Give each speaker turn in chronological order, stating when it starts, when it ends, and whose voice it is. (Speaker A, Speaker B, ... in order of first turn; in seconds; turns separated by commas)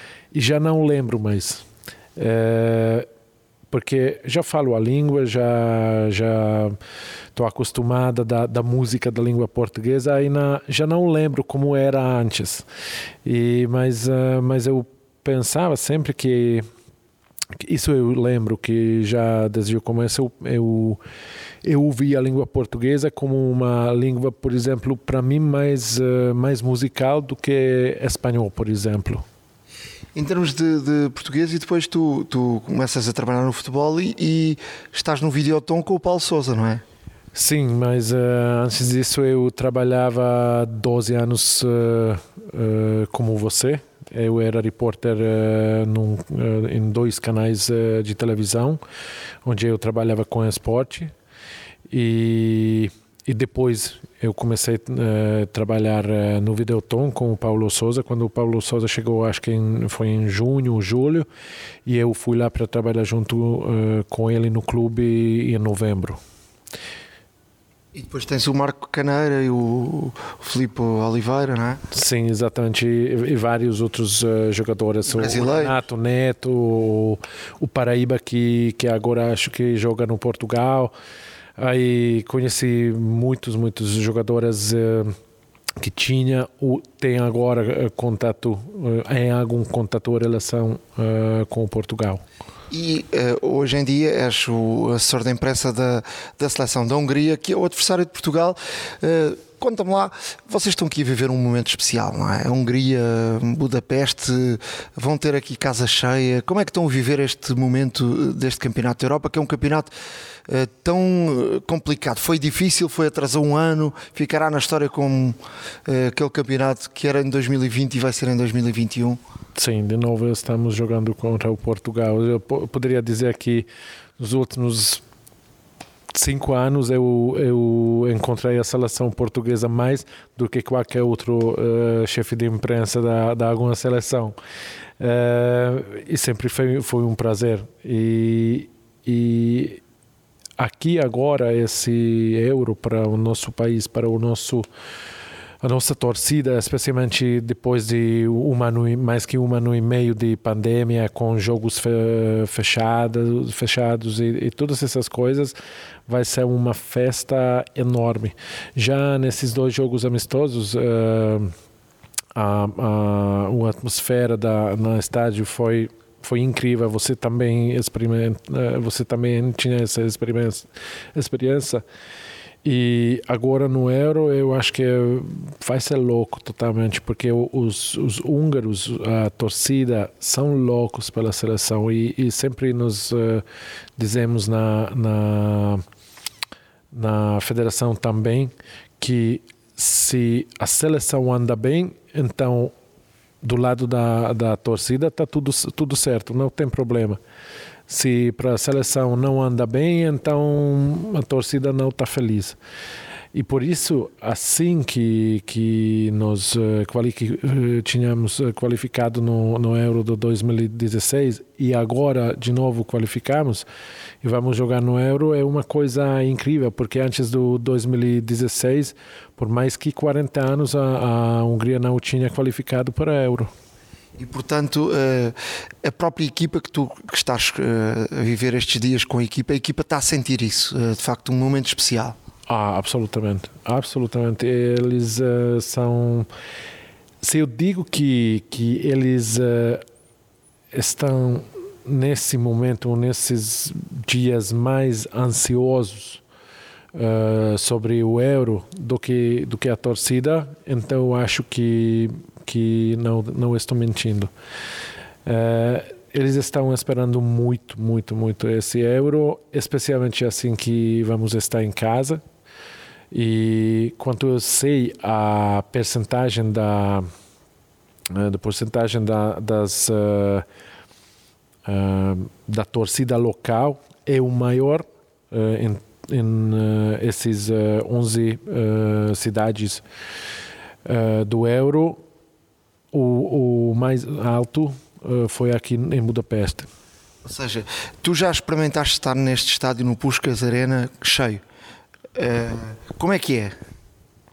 Speaker A: 0.3-1.6, Speaker A: 2.2-3.1, Speaker A: 3.7-6.8, Speaker A: 7.3-12.6, Speaker A: 13.2-16.6, Speaker A: 17.6-21.0, Speaker A: 21.6-29.2, Speaker B: 30.1-36.8, Speaker A: 37.4-48.8, Speaker A: 49.4-51.1, Speaker A: 51.9-61.3, Speaker A: 61.9-66.2, Speaker B: 67.9-71.8, Speaker A: 71.9-80.9, Speaker B: 75.1-75.8, Speaker A: 81.6-85.1, Speaker A: 85.8-92.2, Speaker B: 92.7-109.9, Speaker B: 110.5-119.2, Speaker A: 119.6-123.7, Speaker A: 124.2-125.0, Speaker A: 126.1-134.3, Speaker A: 135.0-139.8, Speaker A: 140.6-144.7, Speaker A: 145.6-155.5, Speaker A: 156.1-161.5, Speaker A: 162.3-171.8, Speaker A: 172.6-183.4, Speaker A: 184.0-185.8, Speaker A: 186.9-192.7, Speaker A: 193.4-197.2, Speaker A: 197.9-202.6, Speaker A: 203.3-213.7, Speaker A: 214.2-223.5, Speaker B: 224.2-232.2, Speaker A: 232.5-236.3, Speaker A: 237.2-239.8, Speaker A: 240.7-246.2, Speaker A: 246.9-254.3, Speaker A: 255.2-262.2, Speaker A: 263.1-267.1, Speaker A: 268.1-270.4, Speaker A: 271.6-279.8, Speaker A: 280.9-282.0, Speaker A: 282.9-286.7, Speaker B: 287.2-291.4, Speaker B: 292.1-293.6